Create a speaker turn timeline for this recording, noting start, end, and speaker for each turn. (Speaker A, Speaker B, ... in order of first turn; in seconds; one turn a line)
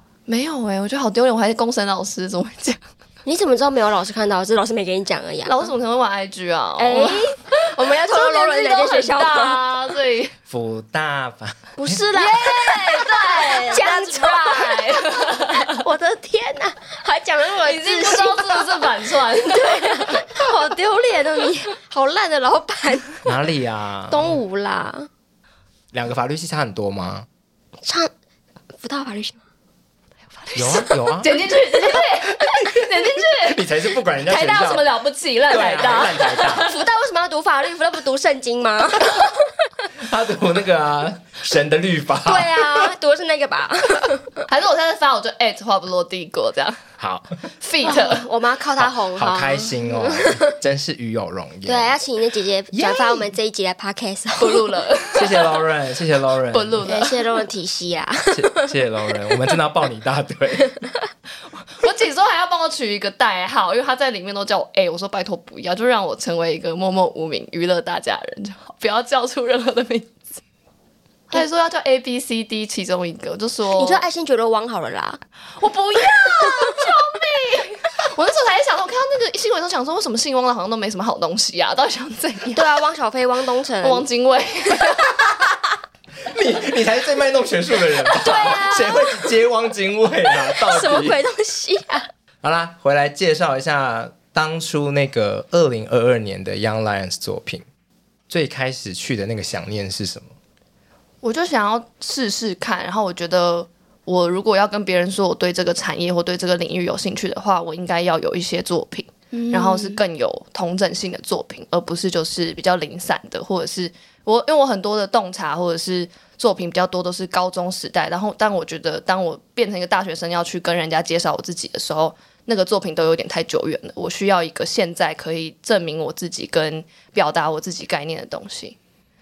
Speaker A: 0.3-2.8
Speaker B: 3.2-5.7
Speaker A: 5.4-7.3
Speaker B: 6.8-9.6
Speaker A: 8.1-10.3
Speaker C: 10.5-12.1
Speaker B: 11.8-18.9
Speaker A: 12.1-15.8
Speaker A: 17.6-20.2
Speaker B: 19.4-23.2
Speaker C: 23.2-24.4
Speaker B: 24.1-25.1
Speaker C: 25.9-27.3
Speaker B: 27.9-28.1
Speaker B: 28.8-29.4
Speaker A: 30.4-36.8
Speaker C: 30.6-31.4
Speaker C: 33.5-34.9
Speaker C: 35.5-36.7
Speaker B: 36.6-39.3
Speaker C: 40.0-42.9
Speaker B: 42.2-44.3
Speaker A: 44.5-46.8
Speaker C: 47.0-47.4
Speaker A: 47.6-48.2
Speaker B: 47.8-50.5
Speaker C: 48.8-52.0
Speaker B: 51.6-54.7
Speaker C: 52.7-53.3
Speaker A: 54.4-55.6
Speaker C: 55.2-56.9
Speaker A: 56.5-57.3
Speaker B: 56.9-58.6
Speaker C: 58.3-60.7
Speaker A: 61.8-70.2
Speaker A: 71.3-74.0
Speaker B: 73.8-75.2
Speaker A: 75.6-82.7
Speaker B: 82.5-84.0
Speaker A: 83.8-85.2
Speaker C: 86.3-91.2
Speaker B: 88.2-89.3
Speaker B: 90.4-92.1
Speaker C: 92.4-97.7
Speaker C: 98.3-100.3
Speaker A: 101.2-128.8
Speaker B: 109.3-110.0